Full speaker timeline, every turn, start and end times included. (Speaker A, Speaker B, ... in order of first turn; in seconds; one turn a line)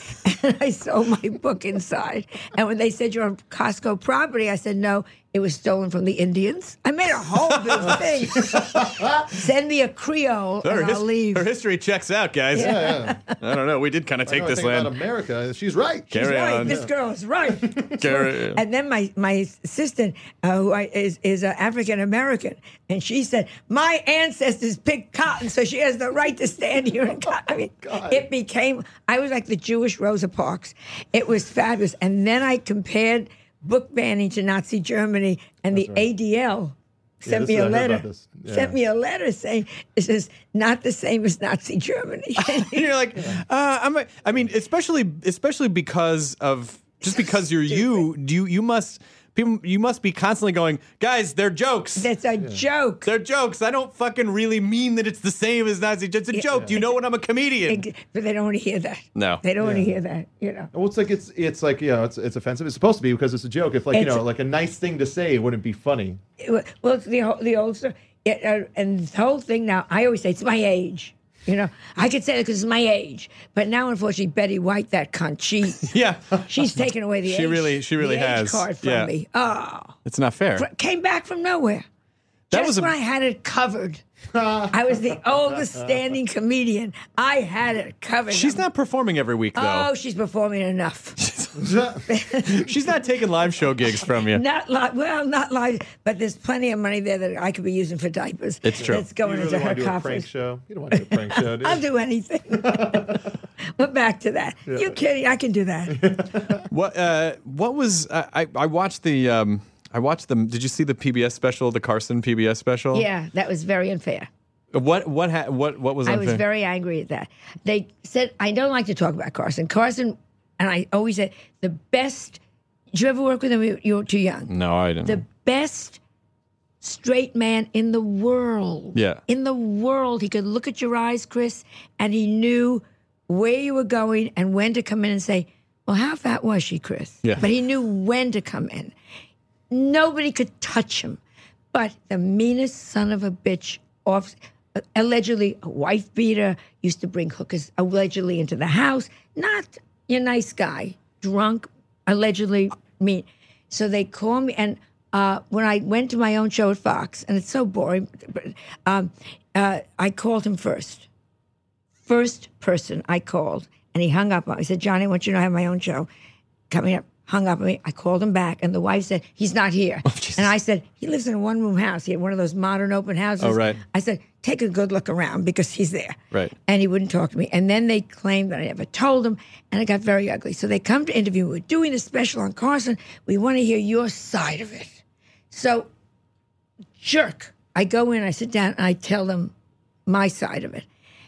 Speaker A: 0.2-11.5
Speaker B: 8.4-9.2
Speaker C: 10.6-14.9
Speaker B: 12.5-13.2
Speaker A: 12.5-13.3
Speaker B: 14.2-16.9
Speaker C: 16.1-16.8
Speaker A: 16.1-42.9
Speaker B: 17.5-18.0
Speaker C: 18.0-18.6
Speaker B: 27.3-28.2
Speaker B: 35.7-36.1
Speaker B: 37.2-38.8
Speaker C: 42.4-52.1
Speaker A: 47.7-48.0
Speaker A: 52.0-53.1
Speaker C: 53.0-57.8
Speaker A: 56.3-56.9
Speaker A: 57.7-60.7
Speaker C: 59.1-59.4
Speaker B: 59.6-59.9
Speaker B: 60.7-66.2
Speaker A: 63.9-64.2
Speaker A: 66.4-75.9
Speaker C: 75.8-79.1
Speaker A: 76.5-80.0
Speaker C: 80.0-80.7
Speaker A: 80.6-81.8
Speaker C: 82.5-82.9
Speaker A: 82.5-84.0
Speaker B: 84.3-85.9
Speaker A: 84.7-88.6
Speaker C: 88.3-89.9
Speaker A: 89.5-91.2
Speaker C: 91.2-91.6
Speaker B: 91.6-92.0
Speaker A: 92.1-92.7
Speaker C: 92.5-94.4
Speaker A: 94.3-100.2
Speaker C: 98.6-99.0
Speaker B: 98.8-101.8
Speaker A: 101.0-103.2
Speaker B: 102.5-103.2
Speaker A: 103.8-106.2
Speaker B: 104.7-105.0
Speaker B: 105.9-106.7
Speaker C: 106.7-113.0
Speaker A: 112.9-114.3
Speaker C: 114.7-116.4
Speaker A: 116.0-122.4
Speaker A: 122.9-124.5
Speaker C: 124.5-125.2
Speaker A: 125.0-126.0
Speaker A: 126.8-138.9
Speaker C: 128.9-129.2
Speaker A: 139.7-141.2
Speaker A: 141.7-161.1
Speaker A: 162.1-166.1
Speaker A: 166.7-185.0
Speaker C: 170.1-170.5
Speaker C: 173.4-173.8
Speaker A: 185.5-185.9
Speaker A: 187.0-189.5
Speaker A: 190.1-190.8